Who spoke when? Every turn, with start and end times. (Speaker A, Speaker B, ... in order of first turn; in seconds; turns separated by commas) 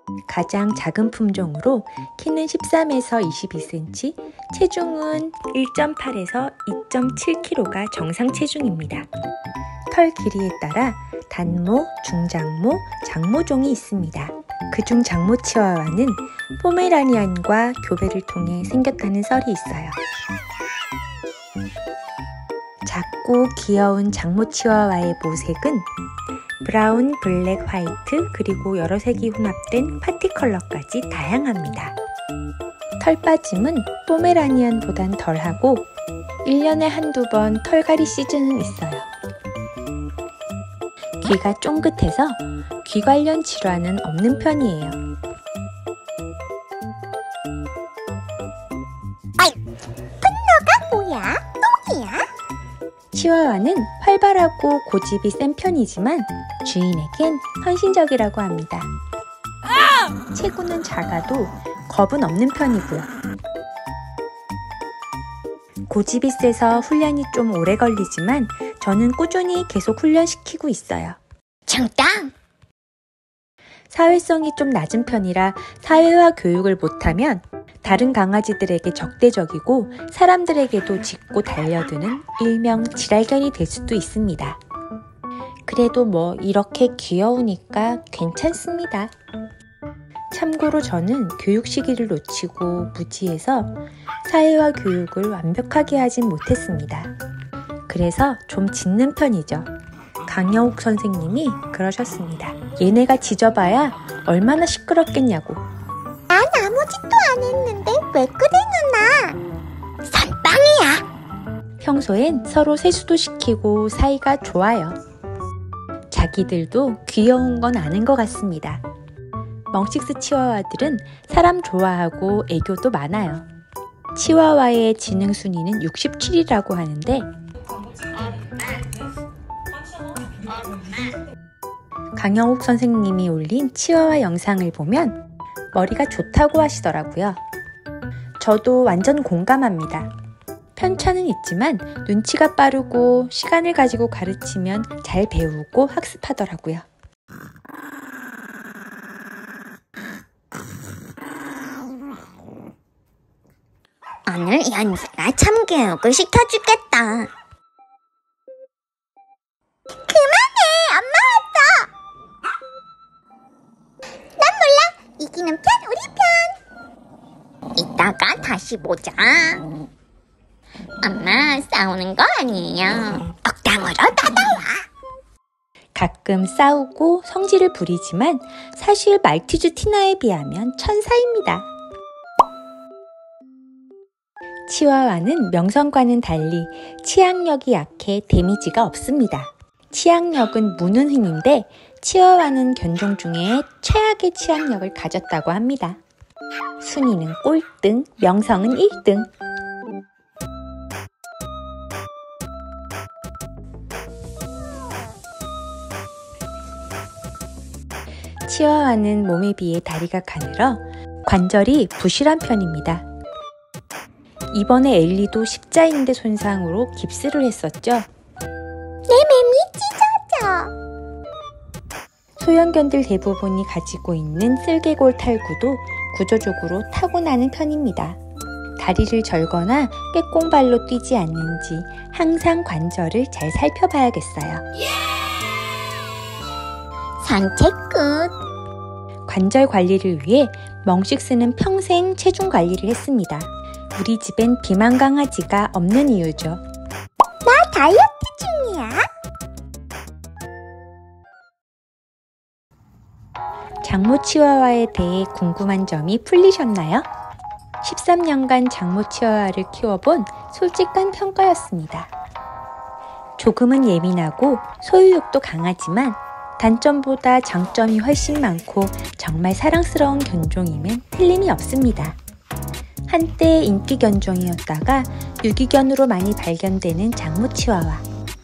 Speaker A: 0.3-9.1, Speaker A: 9.9-20.0, Speaker A: 22.8-25.9, Speaker A: 26.6-31.9, Speaker A: 33.0-35.9, Speaker A: 36.4-39.1, Speaker A: 41.2-45.0, Speaker B: 50.2-52.3, Speaker A: 53.1-58.9, Speaker A: 60.3-63.1, Speaker A: 65.9-71.2, Speaker B: 71.7-72.3, Speaker A: 73.9-84.6, Speaker A: 85.7-89.1, Speaker A: 90.3-97.1, Speaker A: 97.9-99.7, Speaker A: 100.2-105.6, Speaker B: 106.3-109.4, Speaker B: 110.0-111.0, Speaker A: 111.8-115.0, Speaker A: 116.1-118.8, Speaker A: 119.7-123.4, Speaker A: 124.1-127.3, Speaker A: 132.2-135.2, Speaker A: 135.7-137.4, Speaker A: 138.4-140.1, Speaker A: 140.8-146.8, Speaker B: 154.3-157.3, Speaker B: 159.9-161.9, Speaker B: 164.4-166.6, Speaker B: 167.7-169.8, Speaker B: 171.0-174.8, Speaker A: 175.9-181.7, Speaker A: 184.7-196.0, Speaker A: 196.8-199.3, Speaker A: 208.4-213.1, Speaker A: 214.5-218.1, Speaker B: 219.1-220.7, Speaker A: 222.4-228.2, Speaker A: 228.8-234.6, Speaker B: 237.2-238.3, Speaker A: 239.3-246.6, Speaker B: 247.4-249.1, Speaker A: 253.8-257.1, Speaker A: 257.8-262.1, Speaker A: 263.4-272.2, Speaker A: 273.1-278.0